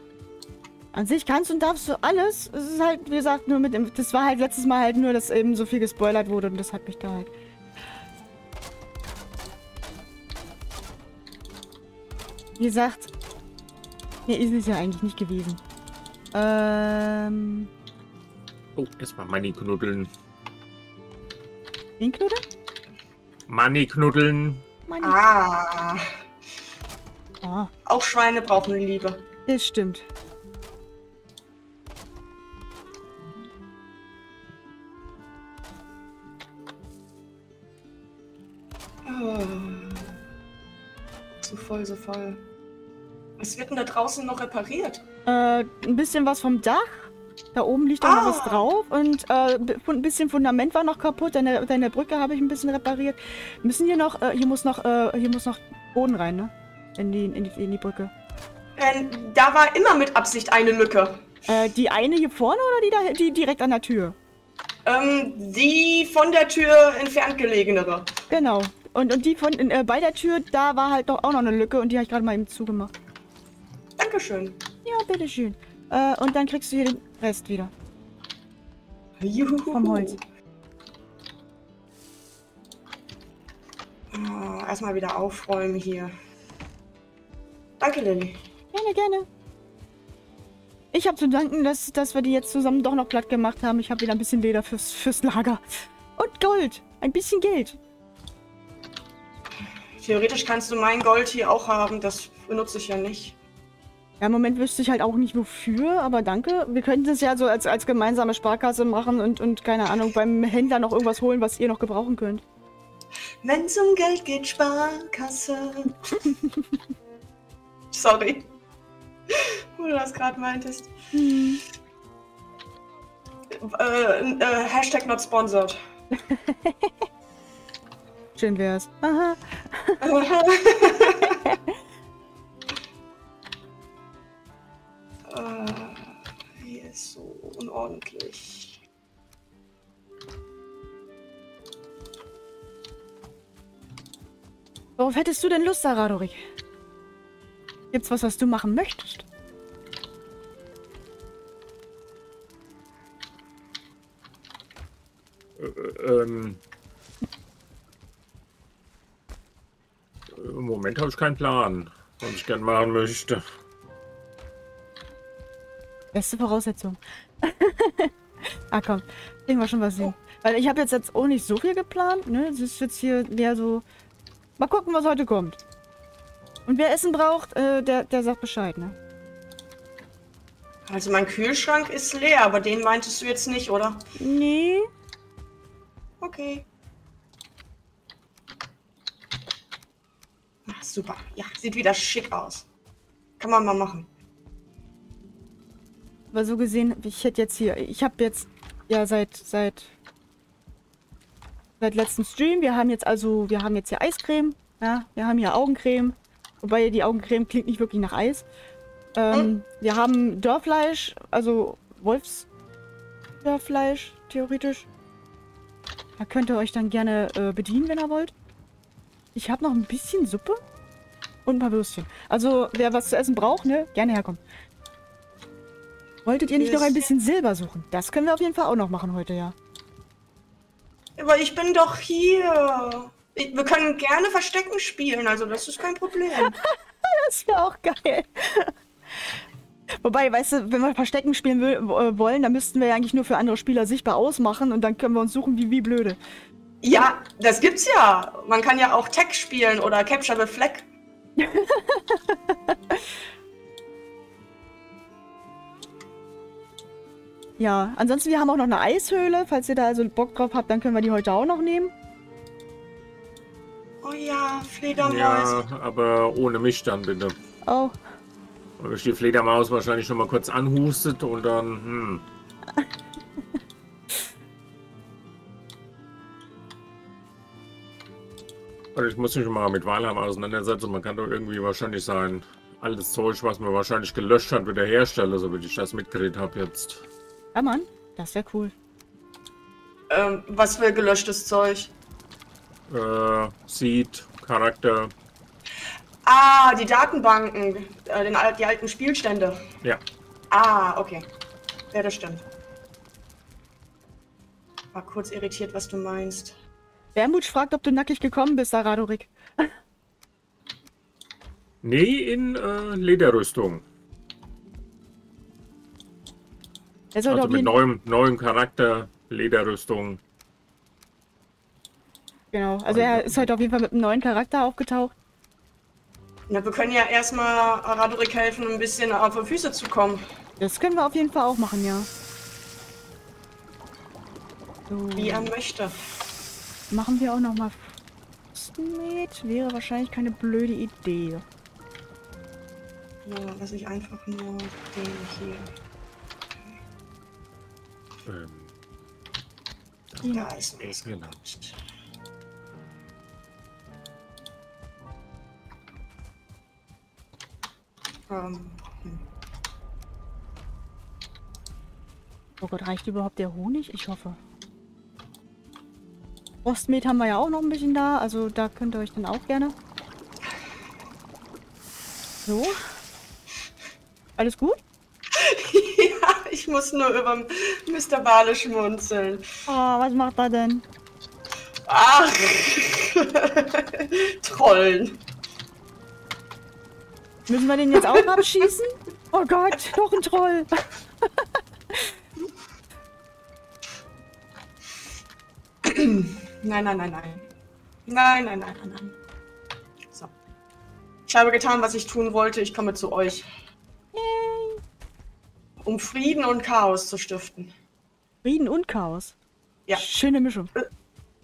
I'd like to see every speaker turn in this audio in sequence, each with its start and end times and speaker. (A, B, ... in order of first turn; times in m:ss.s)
0:00.9-0:07.3 A
0:12.6-0:13.1 A
0:14.2-0:15.6 A
0:16.3-0:17.7 A
0:18.7-0:20.1 B
0:22.0-0:22.4 A
0:23.5-0:24.6 B
0:24.9-0:25.2 A
0:25.0-0:26.1 C
0:27.4-0:27.7 A
0:27.8-0:29.2 C
0:29.5-0:30.0 A
0:39.0-0:40.1 C
0:41.4-0:42.4 C
0:43.4-0:45.0 C
0:45.2-0:58.1 A
0:48.0-0:48.7 C
0:58.8-1:01.4 C
1:01.5-1:04.2 A
1:04.8-1:08.1 C
1:08.3-1:12.9 A
1:14.0-1:14.6 C
1:14.8-1:17.7 A
1:19.2-1:20.2 C
1:19.7-1:20.2 A
1:24.1-1:26.1 C
1:27.8-1:28.4 C
1:28.7-1:29.3 A
1:30.9-1:35.6 A
1:36.2-1:37.8 A
1:40.0-1:43.4 C
1:44.2-1:52.4 A
1:53.4-1:56.2 C
1:57.9-1:58.5 C
1:59.3-2:00.9 C
2:01.1-2:01.6 A
2:03.5-2:05.8 C
2:06.1-2:06.9 A
2:08.4-2:10.0 A
2:10.0-2:11.4 C
2:11.0-2:11.6 A
2:15.3-2:18.8 C
2:25.0-2:26.4 A
2:27.9-2:29.2 A
2:35.6-2:36.6 B
2:40.3-2:43.4 B
2:46.1-2:53.8 A
2:54.6-2:55.6 A
2:56.6-2:59.0 A
3:00.9-3:04.1 C
3:04.2-3:04.9 A
3:06.2-3:06.6 C
3:10.7-3:12.6 C
3:13.4-3:14.1 C
3:16.3-3:19.9 A
3:21.8-3:28.4 A
3:29.2-3:32.5 A
3:33.4-3:34.9 A
3:36.2-3:38.3 A
3:39.3-3:40.6 A
3:41.4-3:44.4 A
3:46.2-3:49.6 A
3:46.6-3:47.1 C
3:51.2-3:56.5 C
3:56.3-3:59.3 A
4:00.0-4:06.2 A
4:06.8-4:10.9 C
4:11.4-4:13.0 A
4:17.6-4:21.9 A
4:24.0-4:25.6 C
4:25.0-4:27.3 B
4:27.6-4:27.9 A
4:28.8-4:32.2 B
4:38.9-4:47.0 B
4:47.5-4:48.7 A
4:50.1-4:51.9 C
4:52.9-4:55.1 B
4:56.2-4:59.6 C
5:00.5-5:01.3 C
5:01.9-5:02.4 C
5:04.9-5:06.6 C
5:07.1-5:09.7 A
5:11.8-5:13.8 B
5:17.1-5:17.7 A
5:17.3-5:20.2 B
5:22.5-5:25.1 A
5:22.9-5:23.5 B
5:26.5-5:30.2 C
5:30.6-5:32.1 A
5:34.9-5:35.5 A
5:35.2-5:36.0 C
5:36.9-5:38.0 A
5:38.5-5:41.4 A
5:43.2-5:45.7 C
5:48.2-5:48.7 B
5:50.2-5:51.8 C
5:50.8-5:51.4 B
5:58.3-5:59.2 C
6:02.6-6:04.4 A
6:06.6-6:09.7 A
6:12.4-6:12.8 A
6:14.4-6:14.8 A
6:15.3-6:19.5 C
6:19.7-6:20.8 A
6:21.9-6:25.2 C
6:27.5-6:30.7 A
6:27.9-6:28.7 C
6:35.8-6:37.5 C
6:38.1-6:39.2 C
6:41.3-6:43.5 C
6:44.1-6:44.8 A
6:45.8-6:47.7 C
6:48.4-6:49.4 A
6:49.9-6:50.7 A